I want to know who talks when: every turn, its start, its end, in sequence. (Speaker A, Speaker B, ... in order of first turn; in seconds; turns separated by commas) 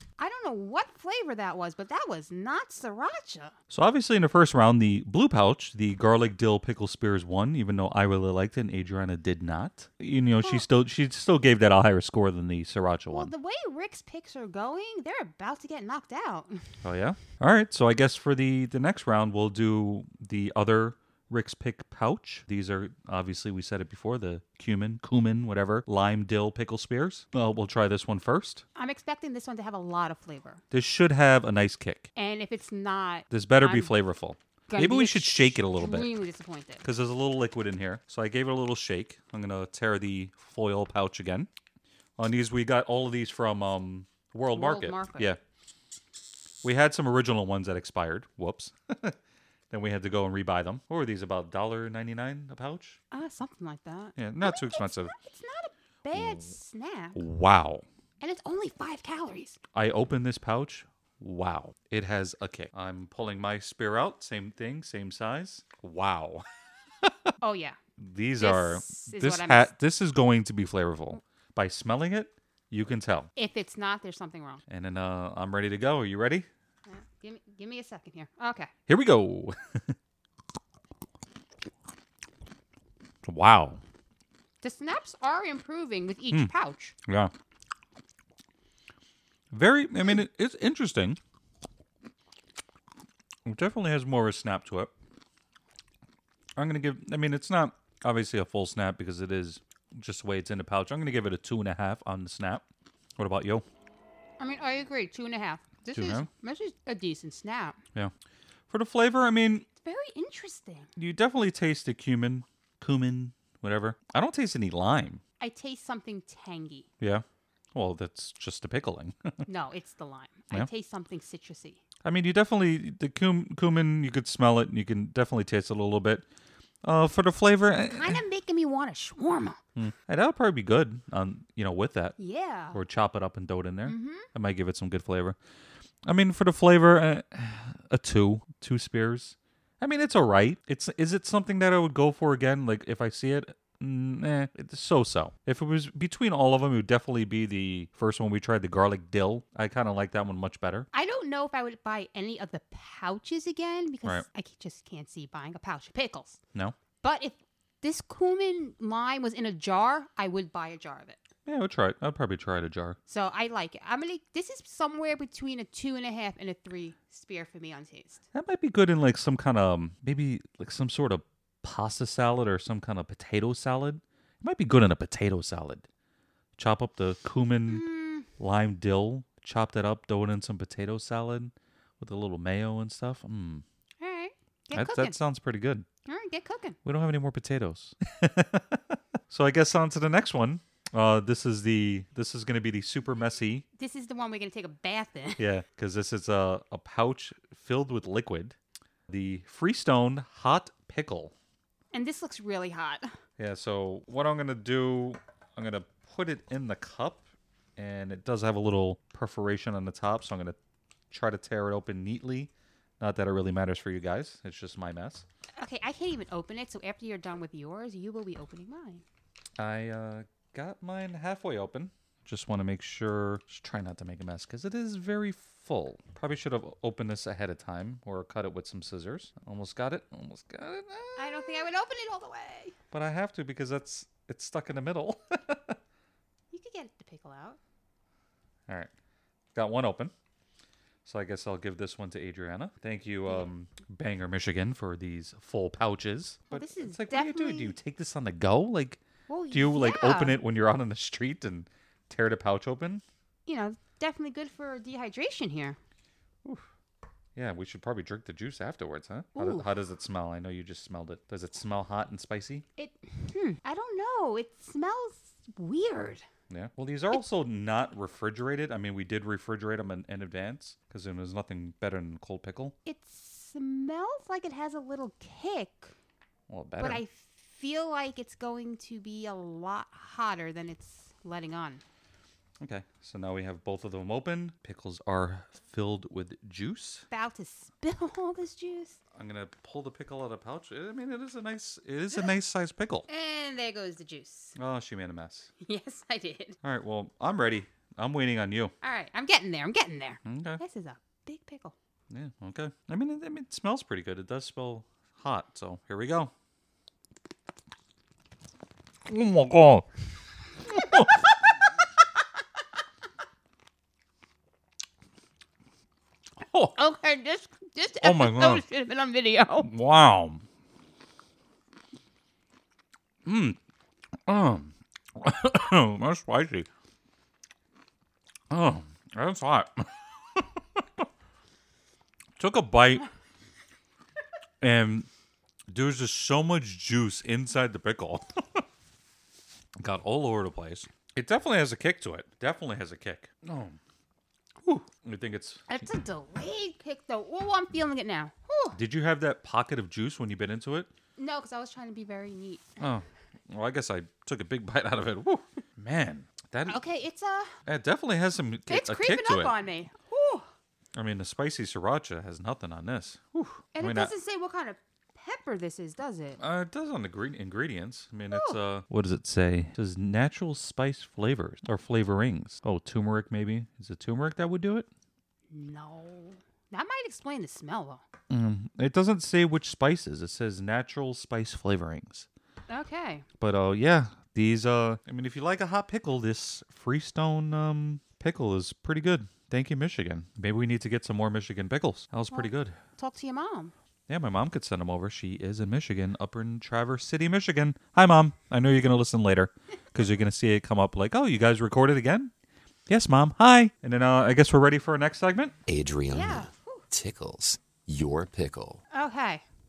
Speaker A: 0.2-3.5, Speaker B: 3.7-13.3, Speaker A: 10.4-10.7, Speaker A: 13.1-16.7, Speaker B: 16.8-28.6, Speaker A: 28.8-30.6, Speaker B: 30.7-32.1, Speaker A: 32.1-33.9, Speaker B: 33.3-36.1, Speaker A: 34.7-36.8, Speaker B: 36.8-41.5, Speaker B: 42.2-45.4, Speaker A: 44.5-45.4, Speaker B: 46.6-49.2, Speaker B: 49.7-53.0, Speaker A: 53.1-57.2, Speaker B: 54.2-55.1, Speaker B: 56.1-56.5, Speaker B: 57.1-57.8, Speaker A: 58.2-59.6, Speaker B: 59.7-66.4, Speaker B: 67.0-67.3, Speaker A: 67.4-67.8, Speaker B: 68.0-73.3, Speaker A: 68.4-69.7, Speaker A: 73.4-74.6, Speaker B: 74.7-76.5, Speaker A: 76.9-78.7, Speaker B: 78.9-80.0, Speaker B: 83.2-83.8, Speaker A: 84.6-87.0, Speaker B: 87.1-87.3, Speaker B: 89.5-91.2, Speaker B: 93.5-94.9, Speaker B: 96.6-102.6, Speaker B: 103.2-103.6, Speaker A: 104.4-107.8, Speaker B: 105.9-106.3, Speaker B: 108.7-109.7, Speaker A: 109.8-110.9, Speaker B: 111.0-115.2, Speaker A: 115.4-116.9, Speaker B: 117.0-119.5, Speaker A: 119.5-121.8, Speaker B: 122.0-126.2, Speaker B: 126.8-128.2, Speaker A: 127.9-129.6, Speaker B: 129.8-132.2, Speaker A: 132.2-132.8, Speaker B: 132.7-135.4, Speaker A: 133.9-134.3, Speaker B: 136.1-150.9, Speaker A: 150.9-156.4, Speaker A: 157.0-161.2, Speaker B: 161.5-163.0, Speaker A: 163.1-168.2, Speaker B: 168.3-175.8, Speaker B: 176.6-177.8, Speaker A: 177.7-178.3, Speaker B: 178.4-183.6, Speaker A: 184.0-185.2, Speaker B: 184.7-185.9, Speaker A: 186.1-186.8, Speaker B: 186.8-193.7, Speaker A: 193.8-195.5, Speaker B: 195.4-198.6, Speaker B: 199.1-201.3, Speaker A: 201.9-203.1, Speaker B: 203.4-207.2, Speaker B: 207.8-210.6, Speaker B: 211.1-215.2, Speaker A: 215.6-219.0, Speaker B: 219.6-231.7, Speaker A: 231.2-232.8, Speaker B: 232.9-235.8, Speaker A: 236.5-237.6, Speaker B: 239.5-240.1, Speaker B: 241.1-253.0, Speaker A: 246.5-247.8, Speaker A: 249.3-250.4, Speaker A: 253.5-255.8, Speaker B: 257.4-262.6, Speaker A: 259.4-259.7, Speaker A: 262.8-266.2, Speaker B: 266.5-272.8, Speaker A: 272.9-275.9, Speaker B: 276.5-277.0, Speaker A: 276.8-281.8, Speaker B: 282.6-287.1, Speaker A: 287.1-289.0, Speaker B: 289.2-293.1, Speaker A: 293.1-294.6, Speaker B: 294.6-295.5, Speaker A: 295.6-296.6, Speaker B: 296.6-298.7, Speaker A: 298.8-301.8, Speaker B: 300.2-300.6, Speaker B: 302.1-306.3, Speaker B: 309.1-309.9, Speaker B: 310.6-311.3, Speaker A: 310.7-311.7, Speaker B: 316.5-316.8, Speaker A: 316.7-319.7, Speaker B: 318.0-318.6, Speaker B: 319.6-320.4, Speaker B: 323.2-323.6, Speaker B: 324.3-326.7, Speaker B: 328.5-331.0, Speaker B: 332.4-333.1, Speaker B: 334.6-335.1, Speaker B: 335.7-338.6, Speaker B: 339.8-343.8, Speaker B: 344.6-345.9, Speaker A: 345.7-348.8, Speaker B: 348.7-350.9, Speaker A: 351.2-352.8, Speaker B: 352.8-356.8, Speaker A: 356.7-357.5, Speaker B: 357.7-359.6, Speaker A: 358.7-360.5, Speaker B: 360.9-364.1, Speaker A: 363.8-366.4, Speaker B: 366.4-374.9, Speaker A: 368.3-368.6, Speaker A: 375.5-378.0, Speaker B: 378.3-382.3, Speaker A: 382.7-383.3, Speaker B: 383.4-392.8, Speaker A: 392.3-393.7, Speaker B: 394.1-402.3, Speaker B: 402.9-405.6, Speaker C: 405.7-408.8, Speaker A: 406.1-406.9, Speaker A: 408.9-409.4